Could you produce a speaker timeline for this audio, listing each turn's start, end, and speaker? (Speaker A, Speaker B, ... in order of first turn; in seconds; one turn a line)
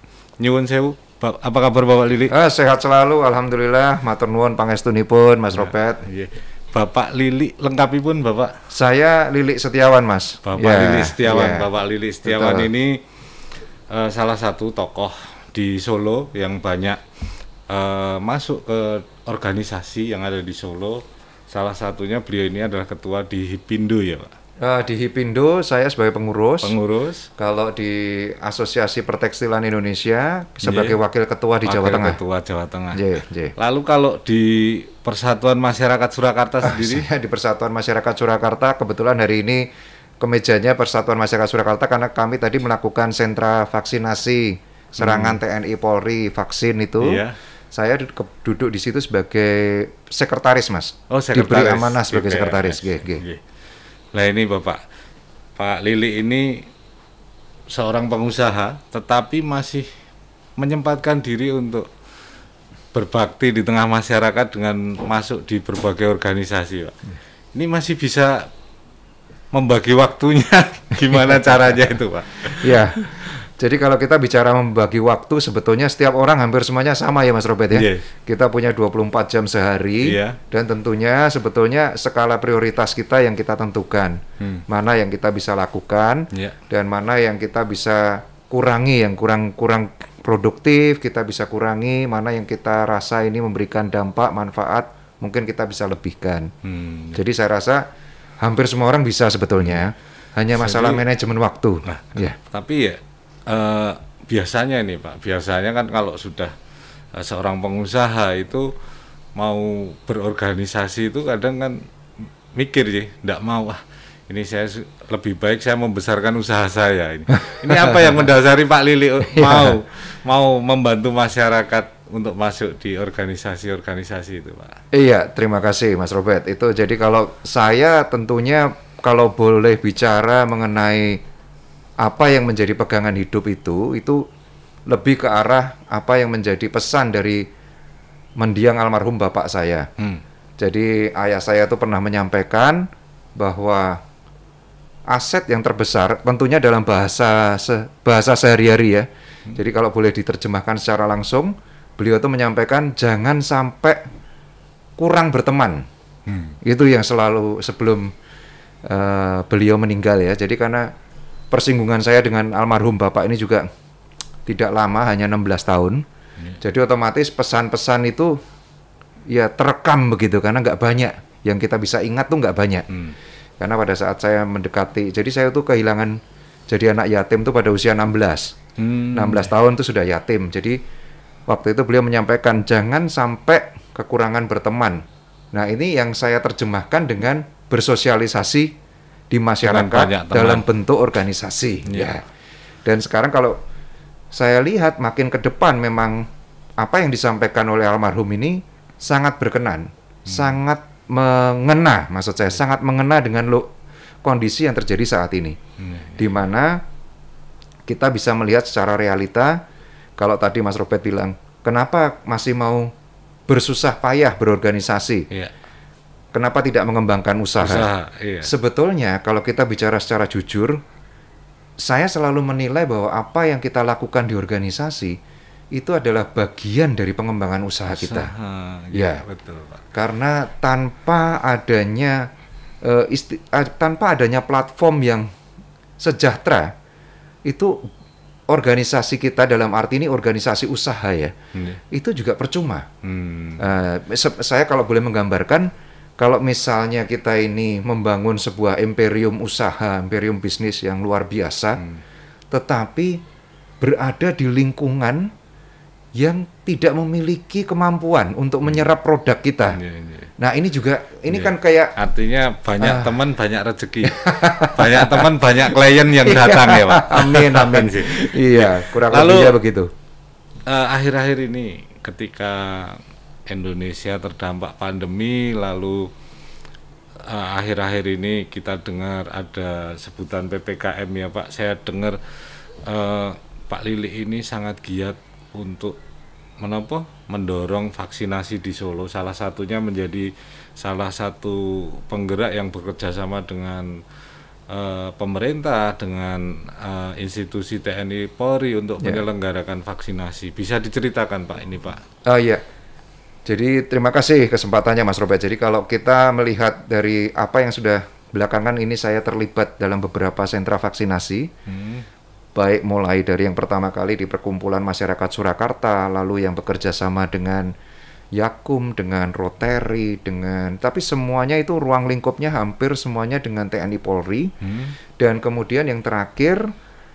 Speaker A: 0.4-2.3
Speaker B: 2.3-6.0
Speaker A: 5.5-8.6
Speaker B: 8.7-11.7
Speaker A: 10.4-13.1
Speaker B: 12.2-12.7
Speaker A: 13.9-17.0
Speaker A: 17.7-24.3
Speaker B: 24.6-26.8
Speaker A: 26.6-27.3
Speaker B: 27.4-32.2
Speaker A: 30.6-31.0
Speaker A: 31.6-37.1
Speaker B: 32.9-33.5
Speaker B: 36.6-39.7
Speaker B: 40.2-53.2
Speaker A: 45.0-45.4
Speaker A: 47.0-47.4
Speaker A: 51.1-53.4
Speaker A: 54.1-54.8
Speaker A: 55.6-56.7
Speaker A: 57.7-59.9
Speaker A: 60.6-61.9
Speaker A: 62.9-68.5
Speaker A: 69.5-73.3
Speaker B: 71.1-71.6
Speaker B: 72.6-96.5
Speaker A: 77.7-78.1
Speaker A: 80.0-80.4
Speaker A: 84.4-84.6
Speaker A: 96.6-97.2
Speaker B: 97.1-97.8
Speaker B: 98.4-102.4
Speaker A: 100.5-101.0
Speaker A: 101.8-106.5
Speaker A: 107.1-108.7
Speaker A: 109.4-111.8
Speaker A: 112.5-124.8
Speaker B: 117.4-118.2
Speaker B: 119.3-119.8
Speaker B: 124.9-131.2
Speaker B: 132.0-134.2
Speaker B: 134.9-137.5
Speaker B: 138.4-139.9
Speaker B: 140.6-144.0
Speaker B: 145.1-154.1
Speaker B: 155.0-155.9
Speaker A: 156.3-156.6
Speaker B: 156.6-158.1
Speaker B: 158.8-160.9
Speaker B: 161.5-163.7
Speaker B: 164.4-166.0
Speaker B: 166.6-168.4
Speaker B: 169.3-172.9
Speaker B: 173.6-178.6
Speaker A: 178.8-179.5
Speaker B: 179.1-180.8
Speaker B: 181.5-188.7
Speaker B: 189.3-192.2
Speaker A: 189.6-190.6
Speaker A: 191.8-192.1
Speaker B: 192.8-193.6
Speaker B: 194.3-196.3
Speaker B: 196.8-203.7
Speaker A: 200.3-200.6
Speaker B: 204.2-205.6
Speaker A: 205.8-206.5
Speaker B: 206.2-206.8
Speaker B: 207.9-209.6
Speaker B: 210.2-212.9
Speaker B: 213.5-215.3
Speaker B: 216.3-217.9
Speaker A: 217.6-218.5
Speaker B: 218.4-220.8
Speaker B: 221.8-225.2
Speaker B: 225.7-228.3
Speaker A: 227.9-229.8
Speaker B: 228.9-229.2
Speaker B: 229.9-232.3
Speaker B: 232.8-235.3
Speaker B: 236.0-236.7
Speaker B: 237.4-237.9
Speaker B: 238.5-241.3
Speaker A: 241.5-241.8
Speaker B: 241.9-242.9
Speaker A: 243.0-243.7
Speaker B: 243.6-251.8
Speaker B: 252.5-253.2
Speaker B: 253.8-255.3
Speaker B: 256.1-259.8
Speaker A: 259.7-260.3
Speaker B: 260.4-261.9
Speaker A: 261.3-269.6
Speaker B: 262.8-263.1
Speaker B: 264.0-265.3
Speaker B: 266.2-269.9
Speaker A: 270.7-276.1
Speaker A: 277.2-282.2
Speaker A: 282.8-285.9
Speaker A: 286.6-294.0
Speaker A: 294.7-302.0
Speaker B: 302.2-302.6
Speaker B: 303.4-311.5
Speaker A: 311.7-312.0
Speaker B: 312.5-317.7
Speaker B: 318.3-324.5
Speaker A: 324.6-324.9
Speaker B: 325.2-326.7